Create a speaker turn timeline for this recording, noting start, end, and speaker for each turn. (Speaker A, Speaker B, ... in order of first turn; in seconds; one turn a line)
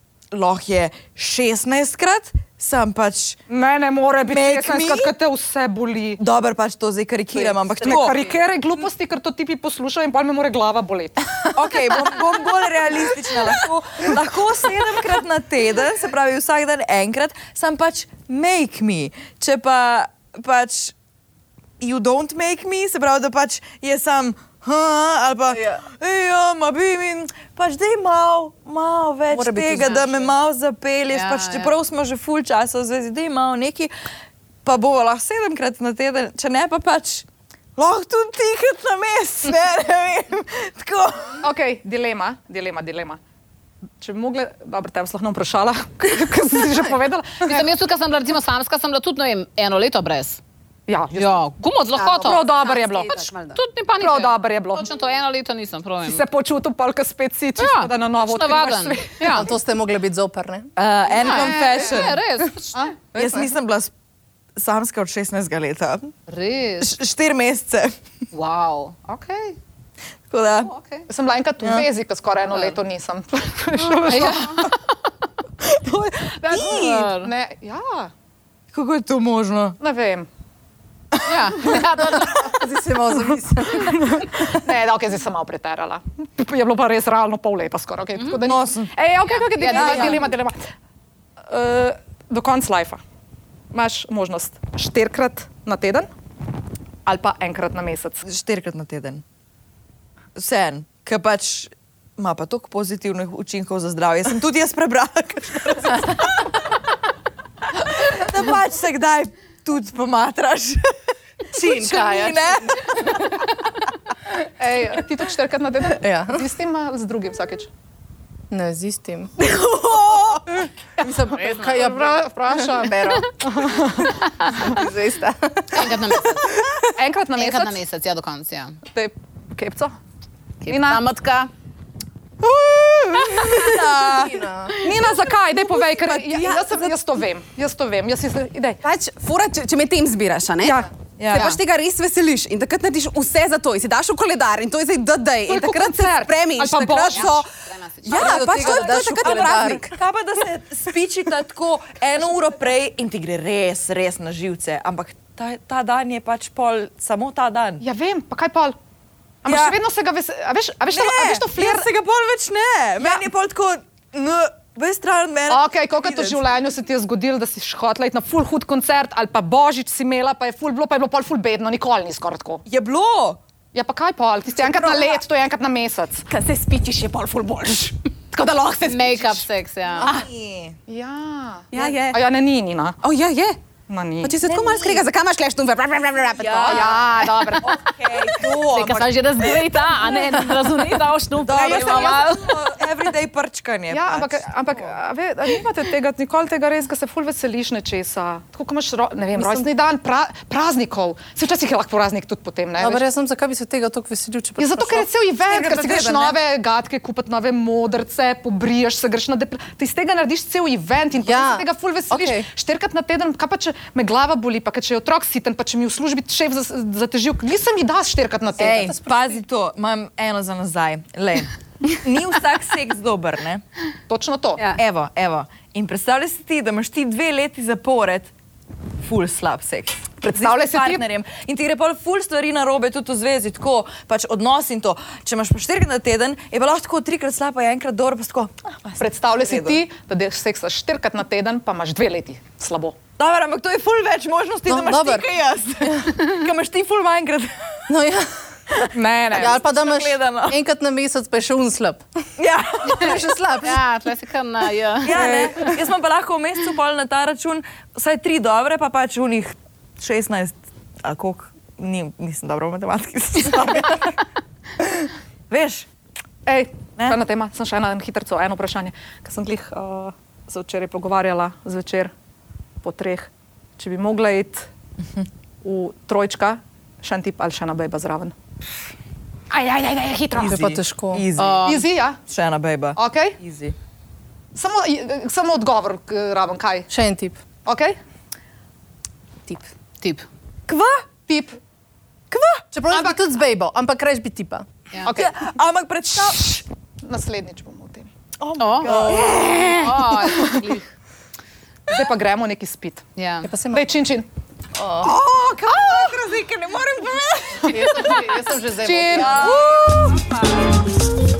Speaker A: 0.3-3.4
Speaker B: 3.5-6.2
Speaker A: 4.2-5.1
Speaker A: 6.2-8.2
Speaker B: 7.3-12.3
Speaker A: 11.5-20.9
Speaker B: 13.2-14.2
Speaker A: 21.8-33.9
Speaker C: 25.5-25.8
Speaker C: 29.3-30.1
Speaker D: 31.1-31.7
Speaker A: 34.6-41.4
Speaker B: 41.4-43.2
Speaker B: 44.0-47.7
Speaker D: 47.4-50.4
Speaker B: 50.9-51.4
Speaker D: 51.1-52.4
Speaker E: 51.9-53.6
Speaker B: 52.2-53.3
Speaker D: 53.5-56.2
Speaker B: 54.0-54.9
Speaker B: 56.0-59.5
Speaker D: 57.6-59.5
Speaker C: 59.2-60.7
Speaker A: 60.8-62.2
Speaker D: 61.2-62.9
Speaker B: 61.2-62.0
Speaker C: 63.1-63.5
Speaker A: 63.1-63.9
Speaker A: 64.5-66.1
Speaker D: 66.3-66.9
Speaker A: 66.8-68.0
Speaker D: 68.3-69.6
Speaker A: 70.3-70.7
Speaker D: 70.6-71.1
Speaker B: 71.1-74.7
Speaker A: 71.6-71.9
Speaker D: 72.5-72.8
Speaker A: 74.0-74.4
Speaker D: 74.0-74.7
Speaker B: 75.6-78.1
Speaker D: 76.5-77.3
Speaker A: 76.5-77.0
Speaker A: 78.7-79.8
Speaker B: 79.8-80.3
Speaker D: 81.2-82.6
Speaker C: 82.1-83.8
Speaker B: 83.7-90.6
Speaker A: 88.4-88.9
Speaker D: 89.5-90.2
Speaker A: 89.6-90.2
Speaker B: 91.5-93.0
Speaker B: 93.7-96.1
Speaker B: 97.0-98.2
Speaker A: 98.2-99.2
Speaker A: 100.3-106.2
Speaker A: 107.8-110.9
Speaker A: 111.5-113.4
Speaker C: 111.5-113.0
Speaker B: 114.4-117.7
Speaker C: 116.0-116.4
Speaker C: 118.5-119.3
Speaker A: 119.4-120.7
Speaker C: 121.0-123.9
Speaker B: 121.0-122.9
Speaker D: 121.3-122.0
Speaker B: 123.4-124.1
Speaker C: 124.5-126.8
Speaker D: 125.7-126.7
Speaker B: 126.9-127.8
Speaker D: 127.3-128.8
Speaker B: 128.9-129.9
Speaker D: 130.6-131.5
Speaker B: 130.7-131.0
Speaker A: 132.6-134.4
Speaker B: 133.2-133.6
Speaker C: 133.5-134.8
Speaker B: 134.8-138.8
Speaker A: 135.6-136.9
Speaker E: 138.8-147.3
Speaker B: 140.6-140.9
Speaker A: 141.2-141.5
Speaker B: 145.5-147.5
Speaker D: 147.0-148.6
Speaker A: 147.1-147.4
Speaker A: 148.0-157.8
Speaker C: 148.0-149.9
Speaker E: 148.4-149.8
Speaker B: 149.0-149.5
Speaker B: 157.8-158.7
Speaker B: 159.4-161.9
Speaker A: 159.4-159.8
Speaker A: 160.9-166.4
Speaker B: 163.0-163.2
Speaker B: 165.5-172.6
Speaker A: 172.7-173.4
Speaker B: 173.7-176.3
Speaker E: 176.3-179.4
Speaker D: 178.8-180.1
Speaker E: 180.0-180.2
Speaker A: 180.0-180.8
Speaker B: 180.9-183.0
Speaker E: 181.7-182.2
Speaker E: 183.0-183.6
Speaker B: 183.9-184.4
Speaker E: 184.2-188.5
Speaker A: 184.4-185.0
Speaker A: 186.4-187.1
Speaker B: 186.6-187.8
Speaker A: 187.6-189.2
Speaker D: 188.7-192.6
Speaker A: 191.4-194.5
Speaker B: 191.6-192.2
Speaker B: 193.9-203.0
Speaker C: 199.3-199.7
Speaker C: 202.8-205.1
Speaker B: 204.6-218.9
Speaker A: 205.5-206.4
Speaker C: 211.2-212.4
Speaker A: 218.6-223.6
Speaker C: 218.6-219.3
Speaker B: 224.1-224.7
Speaker A: 224.8-228.3
Speaker A: 229.0-239.8
Speaker B: 230.2-231.0
Speaker B: 239.0-242.9
Speaker A: 243.2-247.9
Speaker C: 244.7-245.2
Speaker C: 247.9-252.0
Speaker B: 248.9-249.6
Speaker A: 249.3-250.6
Speaker A: 252.4-253.2
Speaker C: 252.8-254.0
Speaker D: 253.6-255.7
Speaker A: 255.0-264.1
Speaker B: 255.2-255.5
Speaker A: 264.8-265.9
Speaker B: 266.4-272.1
Speaker B: 272.8-274.7
Speaker B: 275.6-278.3
Speaker B: 279.5-280.7
Speaker A: 280.3-283.7
Speaker C: 280.4-281.3
Speaker D: 281.4-281.8
Speaker B: 281.6-282.2
Speaker B: 282.9-283.4
Speaker B: 284.5-286.9
Speaker C: 286.9-287.4
Speaker B: 287.6-287.9
Speaker D: 290.0-290.2
Speaker A: 290.7-291.0
Speaker B: 291.2-291.6
Speaker A: 292.3-292.6
Speaker C: 292.7-294.8
Speaker B: 295.1-295.3
Speaker A: 295.1-296.6
Speaker B: 297.0-298.1
Speaker A: 298.4-300.6
Speaker D: 298.6-299.1
Speaker C: 298.8-299.7
Speaker D: 299.6-300.9
Speaker B: 300.4-300.6
Speaker B: 301.9-303.1
Speaker D: 303.2-303.5
Speaker C: 303.4-303.9
Speaker B: 303.7-304.3
Speaker C: 304.7-305.1
Speaker A: 305.0-307.9
Speaker B: 307.6-307.9
Speaker C: 307.6-309.5
Speaker B: 308.8-309.9
Speaker A: 309.1-310.2